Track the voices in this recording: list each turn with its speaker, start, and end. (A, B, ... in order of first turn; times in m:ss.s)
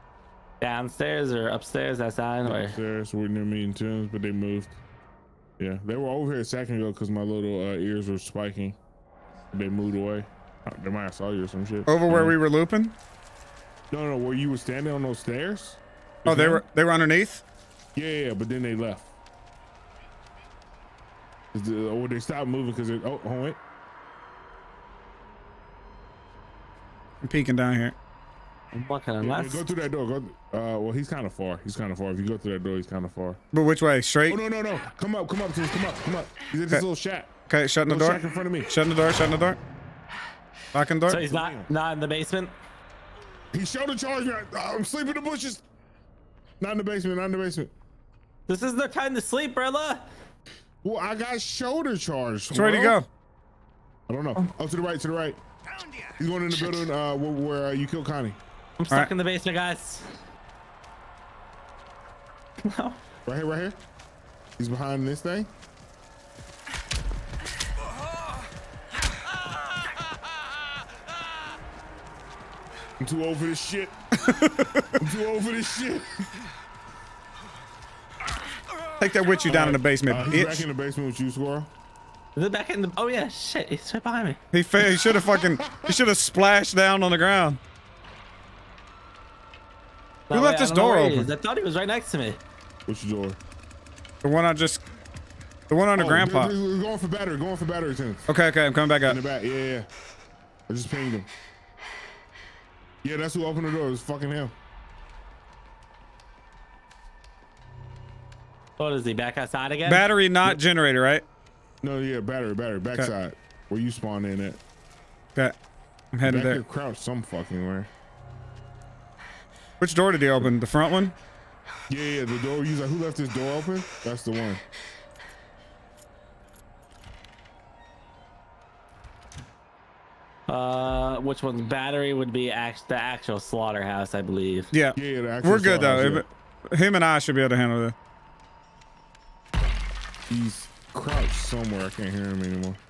0:00.6-0:02.8 A
0:02.4-0:04.8 B
0:05.6-0:08.8 B
0:09.5-0:12.4 B
0:11.9-0:13.0 C
0:13.9-0:16.6 B
0:16.2-0:17.4 C
0:18.0-0:19.1 B
0:21.5-0:23.6 B
0:27.2-0:28.0 C
0:28.7-0:29.6 A
0:29.2-0:33.4 B
0:33.5-0:34.4 C
0:34.2-0:37.3 B
0:37.5-0:39.6 C
0:37.9-0:38.7 B
0:40.7-0:41.3 C
0:41.1-0:42.5 A
0:41.1-0:41.7 B
0:43.5-0:45.6 B
0:46.6-0:47.7 B
0:48.5-0:50.0 A
0:50.8-0:53.0 B
0:52.5-0:53.1 C
0:54.1-0:55.4 B
0:56.2-0:58.4 B
0:58.8-1:00.1 A
1:02.6-1:03.0 A
1:03.3-1:03.8 B
1:04.6-1:05.5 B
1:13.0-1:14.0 B
1:14.2-1:14.9 C
1:15.0-1:16.3 B
1:19.0-1:20.6 C
1:19.5-1:21.7 B
1:22.4-1:24.4 A
1:24.5-1:27.6 C
1:24.8-1:26.0 B
1:30.3-1:32.4 A
1:30.3-1:31.3 C
1:32.9-1:33.4 B
1:34.2-1:34.8 C
1:35.7-1:36.5 C
1:36.0-1:38.3 B
1:38.3-1:39.2 C
1:39.0-1:39.9 B
1:40.7-1:41.3 B
1:43.0-1:44.6 B
1:48.8-1:50.1 A
1:49.9-1:51.2 C
1:51.8-1:54.6 B
1:56.1-1:56.6 C
1:56.2-1:57.9 B
1:59.8-2:01.2 C
2:01.9-2:04.6 B
2:10.5-2:14.7 A
2:14.7-2:18.0 C
2:15.0-2:16.2 B
2:20.3-2:22.8 B